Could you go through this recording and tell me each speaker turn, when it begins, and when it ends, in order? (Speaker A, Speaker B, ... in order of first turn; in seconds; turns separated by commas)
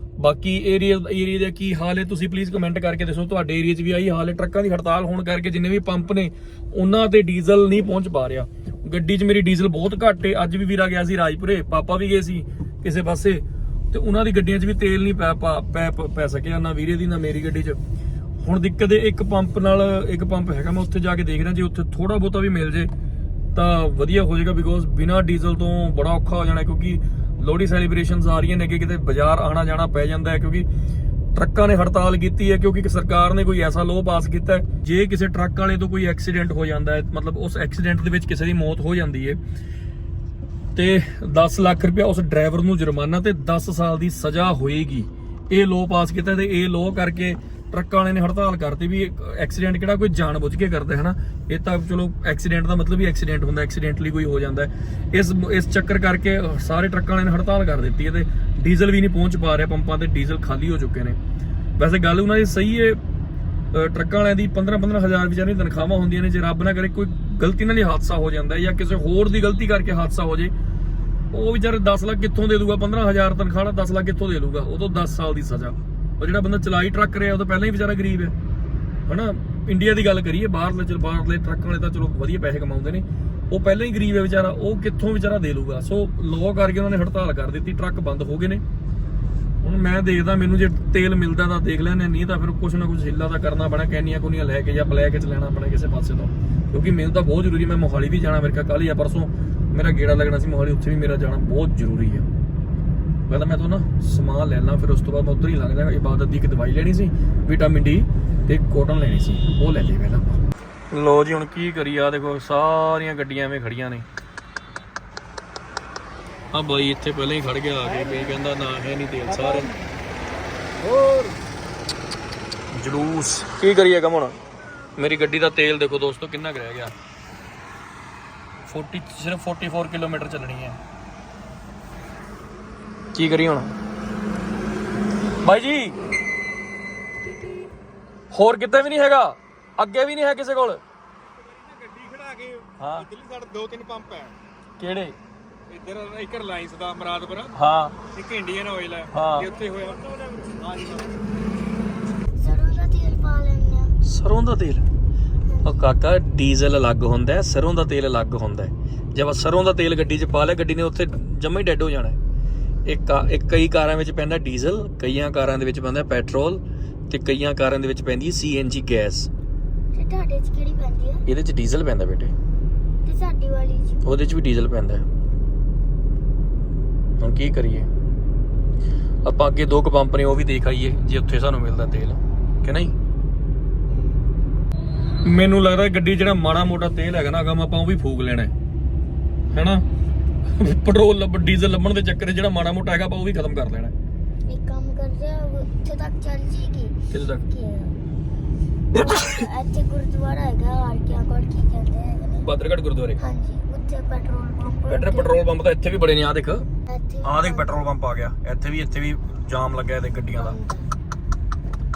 Speaker A: 0.2-17.8, Speaker A: 18.4-22.9, Speaker A: 23.5-30.7, Speaker A: 31.3-39.4, Speaker A: 40.7-61.2, Speaker A: 61.8-63.0, Speaker A: 63.7-70.5, Speaker A: 71.3-78.3, Speaker A: 79.1-88.6, Speaker A: 89.6-102.2, Speaker A: 103.3-110.4, Speaker A: 110.9-114.0, Speaker A: 116.5-119.7, Speaker A: 121.0-121.3, Speaker A: 122.7-124.3, Speaker A: 125.0-126.9, Speaker A: 128.7-130.8, Speaker A: 133.1-133.7, Speaker A: 135.4-135.9, Speaker A: 138.3-140.8, Speaker B: 141.4-144.3, Speaker A: 142.8-143.1, Speaker A: 144.8-145.2, Speaker B: 145.7-147.5, Speaker A: 147.5-147.9, Speaker B: 148.1-151.2, Speaker A: 149.1-149.5, Speaker C: 152.4-153.9, Speaker A: 154.0-154.8, Speaker C: 155.4-155.9, Speaker A: 155.6-162.2, Speaker A: 162.8-169.3, Speaker C: 169.9-171.2, Speaker A: 171.2-172.3, Speaker C: 173.0-174.0, Speaker A: 174.0-175.0, Speaker A: 177.2-177.9, Speaker A: 179.2-182.9, Speaker C: 183.9-184.2, Speaker A: 185.2-188.5, Speaker A: 189.5-189.8, Speaker A: 190.6-193.9, Speaker C: 194.5-198.0, Speaker A: 197.1-197.4, Speaker A: 198.9-199.4, Speaker C: 198.9-202.5, Speaker A: 202.4-203.2, Speaker C: 203.2-205.3, Speaker A: 204.9-206.6, Speaker C: 206.9-207.8, Speaker A: 207.2-210.6, Speaker C: 210.3-210.9